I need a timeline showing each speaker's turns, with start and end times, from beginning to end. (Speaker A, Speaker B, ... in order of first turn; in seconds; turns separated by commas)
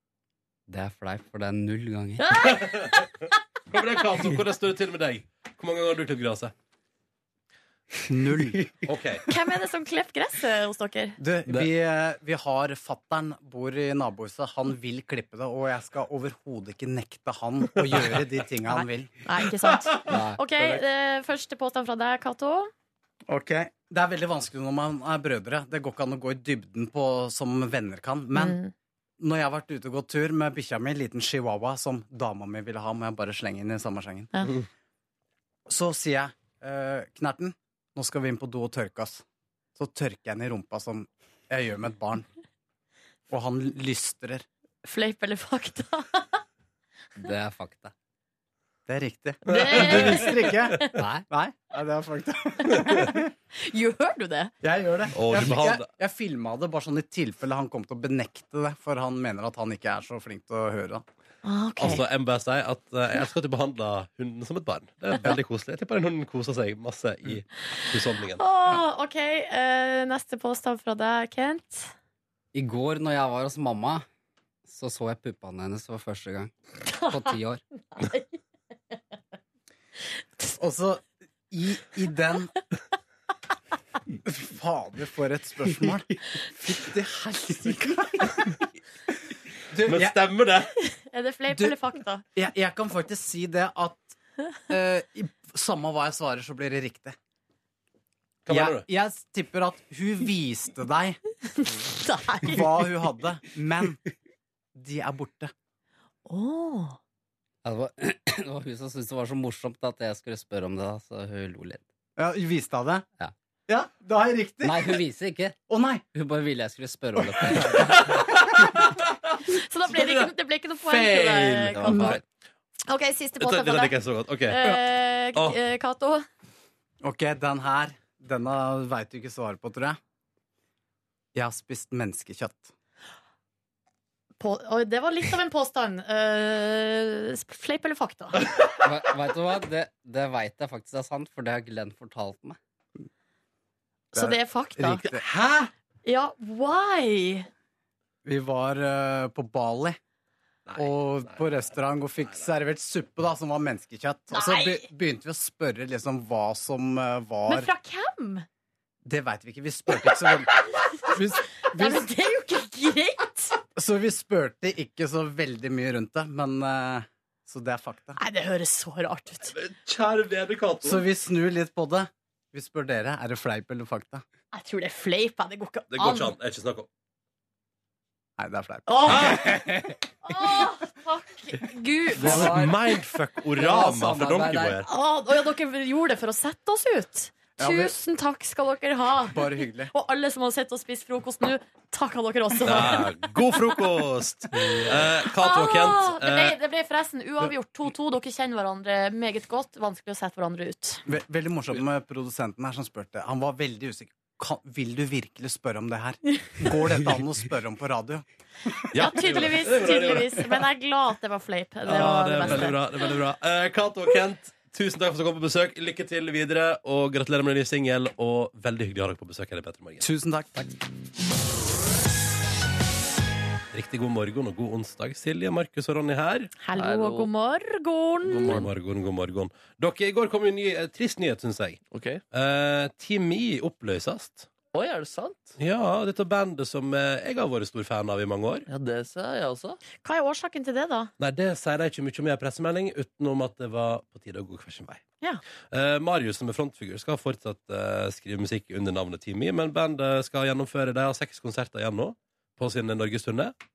Speaker A: 0.7-2.3, Speaker B: 2.2-3.1, Speaker C: 2.4-3.1, Speaker C: 3.7-6.5, Speaker D: 8.1-8.7, Speaker C: 8.9-9.2, Speaker B: 9.3-11.2, Speaker D: 11.2-19.1, Speaker B: 18.7-22.7, Speaker A: 20.1-20.4, Speaker D: 23.3-28.6, Speaker B: 28.3-28.7, Speaker D: 29.2-34.3, Speaker D: 35.7-39.2, Speaker D: 39.8-42.2, Speaker D: 43.3-44.4, Speaker B: 44.8-46.4, Speaker A: 47.2-47.9, Speaker D: 48.9-53.3, Speaker B: 49.4-50.9, Speaker C: 49.5-50.3, Speaker A: 51.0-51.2, Speaker B: 52.6-54.5, Speaker D: 54.6-61.0, Speaker C: 55.1-55.9, Speaker B: 61.4-62.0, Speaker C: 61.8-68.4, Speaker B: 68.4-71.9, Speaker A: 72.5-74.0, Speaker A: 74.6-77.6, Speaker B: 76.9-77.4, Speaker B: 77.9-78.4, Speaker D: 80.6-82.5, Speaker D: 84.2-88.6, Speaker D: 89.7-90.2, Speaker C: 89.8-90.7, Speaker B: 90.8-92.2, Speaker D: 92.3-94.2, Speaker D: 94.7-97.1, Speaker C: 98.4-98.9, Speaker D: 98.5-101.2, Speaker B: 101.5-102.7, Speaker D: 102.4-104.0, Speaker D: 104.7-105.5, Speaker B: 106.2-107.0, Speaker A: 107.6-111.8, Speaker D: 112.2-113.0, Speaker D: 113.7-115.0, Speaker A: 114.6-115.6, Speaker D: 115.7-116.0, Speaker A: 116.1-117.9, Speaker D: 117.2-118.0, Speaker C: 117.5-120.3, Speaker B: 119.5-122.1, Speaker C: 120.8-122.2, Speaker A: 121.8-122.2, Speaker D: 121.9-122.2, Speaker B: 122.9-126.2, Speaker C: 123.4-124.6, Speaker D: 127.0-130.0, Speaker D: 131.3-132.7, Speaker B: 134.4-138.4, Speaker A: 138.8-142.6, Speaker B: 144.1-145.1, Speaker D: 144.1-145.2, Speaker C: 145.1-145.7, Speaker B: 146.0-147.5, Speaker D: 148.2-150.0, Speaker C: 150.7-151.4, Speaker D: 150.8-157.7, Speaker B: 154.3-154.9, Speaker B: 157.5-158.4, Speaker D: 159.0-162.1, Speaker B: 161.7-163.6, Speaker D: 163.8-168.2, Speaker B: 168.2-169.5, Speaker C: 169.4-171.1, Speaker D: 170.8-174.2, Speaker B: 174.5-176.3, Speaker C: 175.9-176.9, Speaker D: 178.4-179.9, Speaker B: 178.9-179.6, Speaker C: 179.1-179.6, Speaker B: 180.2-182.5, Speaker C: 182.2-184.9, Speaker A: 182.2-182.8, Speaker A: 183.5-184.8, Speaker B: 184.8-193.1, Speaker D: 187.6-187.9, Speaker D: 189.3-189.9, Speaker C: 192.6-196.6, Speaker B: 195.2-201.0, Speaker D: 201.1-208.2, Speaker C: 208.9-210.6, Speaker B: 208.9-212.8, Speaker C: 211.9-220.1, Speaker D: 220.0-220.6, Speaker C: 223.7-226.5, Speaker B: 226.6-228.6, Speaker E: 226.7-227.3, Speaker E: 228.3-228.7, Speaker C: 228.4-231.8, Speaker E: 231.9-232.2, Speaker C: 232.3-234.5, Speaker E: 234.7-235.6, Speaker C: 235.6-238.7, Speaker E: 238.7-239.8, Speaker B: 240.0-241.1, Speaker C: 241.2-245.0, Speaker C: 245.7-253.5